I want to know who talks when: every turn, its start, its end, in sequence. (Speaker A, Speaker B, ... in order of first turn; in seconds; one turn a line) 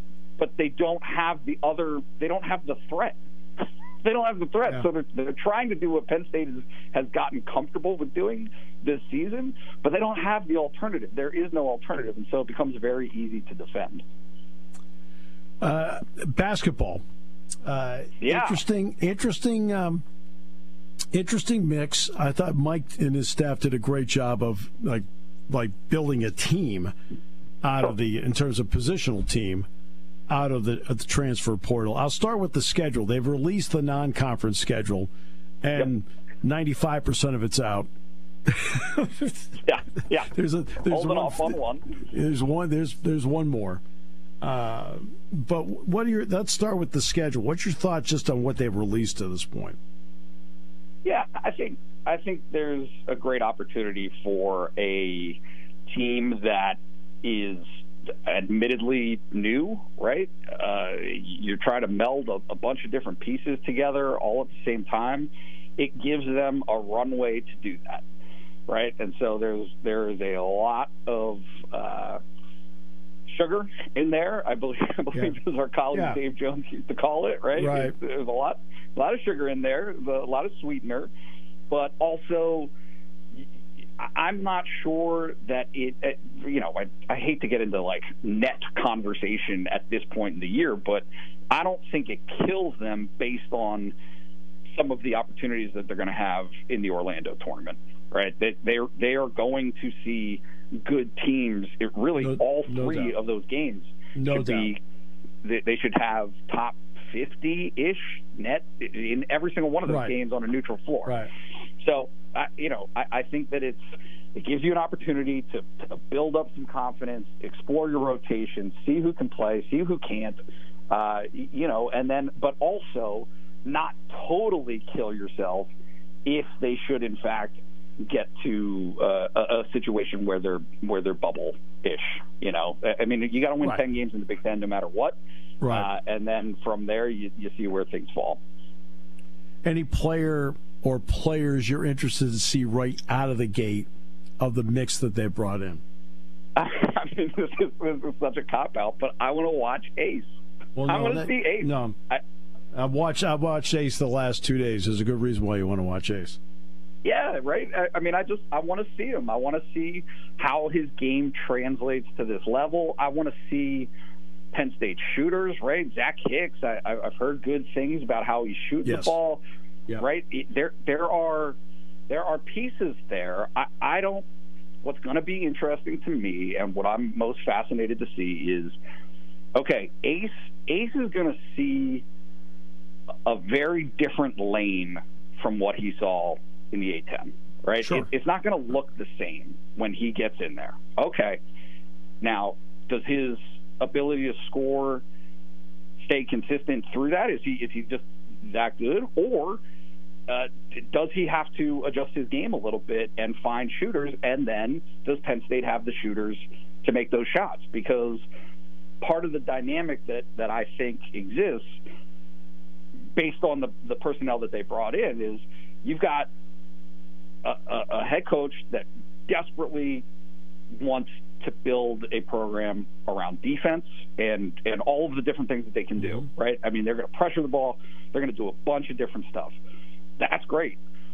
Speaker A: 0.4-3.2
Speaker A: 4.0-14.0
Speaker B: 15.6-17.0
Speaker B: 17.6-20.0
Speaker A: 18.2-18.6
Speaker B: 21.1-26.9
Speaker B: 27.6-29.7
Speaker B: 30.3-35.1
Speaker B: 35.6-37.9
Speaker B: 38.4-39.6
Speaker A: 39.6-40.3
Speaker B: 40.2-43.8
Speaker A: 40.9-42.0
Speaker B: 44.4-49.8
Speaker A: 51.0-68.0
Speaker A: 68.7-72.2
Speaker A: 73.3-81.1
Speaker B: 75.9-76.2
Speaker B: 77.5-77.9
Speaker A: 81.7-82.7
Speaker A: 84.0-93.9
Speaker A: 94.7-104.8
Speaker B: 102.2-103.1
Speaker B: 104.1-104.7
Speaker A: 105.4-111.2
Speaker B: 109.9-110.1
Speaker B: 111.0-111.3
Speaker A: 111.8-113.8
Speaker A: 114.3-120.4
Speaker A: 120.9-125.7
Speaker A: 126.2-135.2
Speaker B: 135.6-135.9
Speaker A: 135.7-138.4
Speaker B: 139.6-143.9
Speaker B: 144.4-145.8
Speaker A: 146.6-150.3
Speaker B: 150.8-152.0
Speaker A: 150.8-152.2
Speaker B: 152.7-156.4
Speaker A: 157.0-163.9
Speaker A: 164.5-169.4
Speaker B: 168.8-169.2
Speaker A: 170.0-171.6
Speaker A: 172.1-174.2
Speaker A: 174.8-178.8
Speaker A: 179.6-182.0
Speaker A: 183.2-191.4
Speaker B: 187.8-188.1
Speaker A: 192.2-195.0
Speaker A: 196.0-199.6
Speaker A: 200.3-208.2
Speaker A: 209.0-211.8
Speaker A: 213.1-216.3
Speaker A: 217.4-220.0
Speaker A: 220.7-229.6
Speaker A: 230.2-230.8